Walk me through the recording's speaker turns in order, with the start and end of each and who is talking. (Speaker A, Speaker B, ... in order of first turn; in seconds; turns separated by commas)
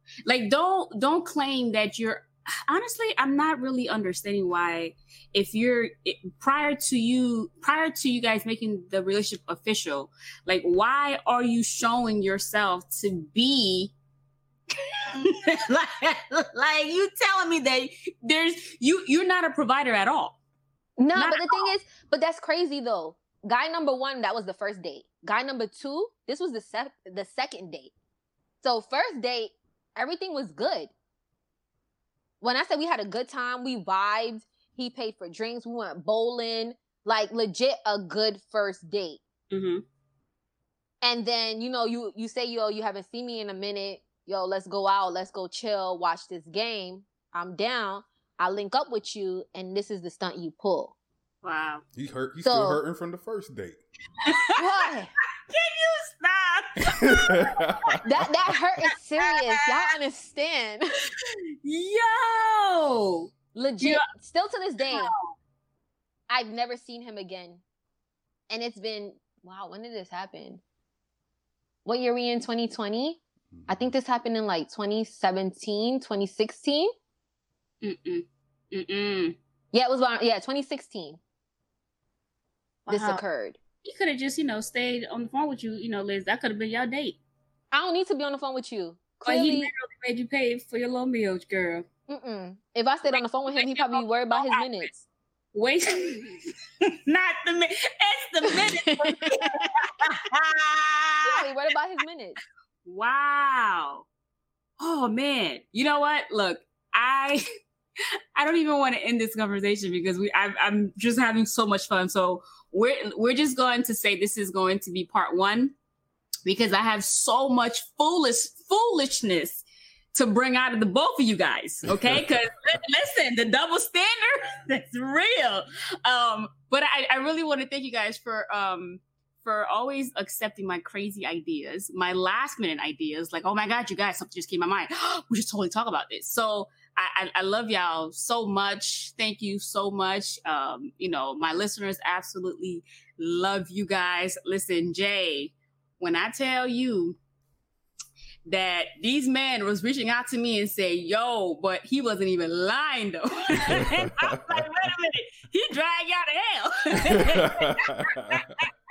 Speaker A: 0.2-13.9, Speaker A: 14.7-20.4, Speaker B: 21.0-27.9, Speaker A: 21.1-21.7, Speaker B: 28.6-30.9, Speaker B: 32.4-39.2, Speaker A: 39.5-39.8, Speaker B: 41.0-50.9, Speaker A: 51.4-51.8, Speaker C: 51.9-53.8, Speaker B: 52.4-52.8, Speaker A: 54.2-54.6, Speaker B: 54.5-55.1, Speaker A: 55.5-58.0, Speaker C: 56.9-58.0, Speaker B: 58.0-61.0, Speaker A: 59.3-59.5, Speaker A: 61.2-64.0, Speaker B: 63.5-65.1, Speaker A: 64.8-65.3, Speaker B: 66.3-67.6, Speaker B: 68.5-70.6, Speaker B: 71.8-76.9, Speaker A: 77.8-79.4, Speaker B: 79.7-81.2, Speaker B: 82.9-83.6, Speaker A: 82.9-83.2, Speaker A: 83.8-87.2, Speaker B: 87.7-89.7, Speaker A: 89.3-91.9, Speaker B: 92.1-95.0, Speaker A: 93.1-95.0, Speaker A: 95.5-101.4, Speaker B: 98.5-99.7, Speaker B: 101.2-102.4, Speaker A: 102.8-104.0, Speaker A: 104.8-107.4, Speaker A: 108.3-115.7, Speaker A: 116.5-147.2, Speaker C: 121.9-122.3, Speaker A: 148.4-158.7, Speaker C: 153.7-154.9, Speaker C: 157.1-158.5